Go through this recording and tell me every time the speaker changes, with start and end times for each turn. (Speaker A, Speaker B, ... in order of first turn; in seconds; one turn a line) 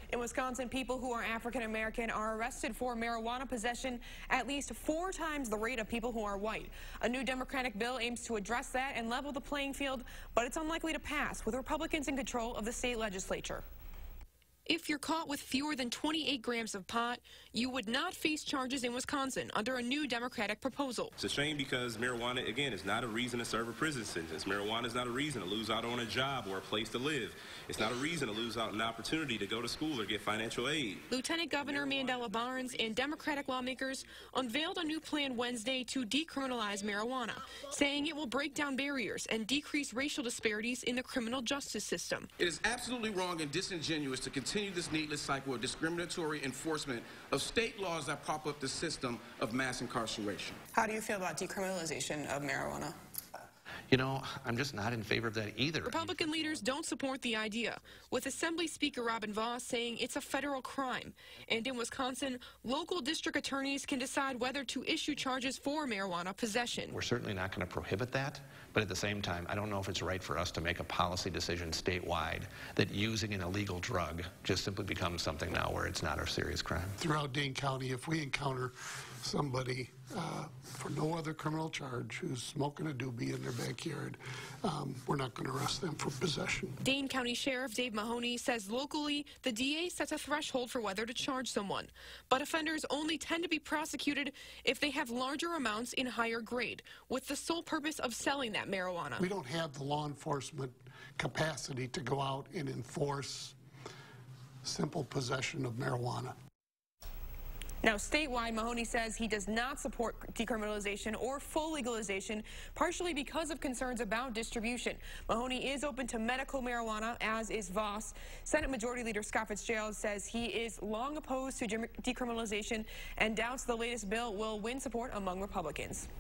Speaker A: 0.1-13.6
Speaker A: 14.7-21.1
Speaker B: 21.2-31.1
Speaker A: 31.1-42.3
Speaker C: 42.4-50.6
Speaker D: 50.7-53.0
Speaker E: 53.9-56.0
Speaker A: 55.9-67.0
Speaker E: 66.9-77.0
Speaker F: 77.0-86.8
Speaker A: 86.8-99.3
Speaker F: 99.2-103.6
Speaker F: 104.6-106.3
Speaker A: 107.8-126.1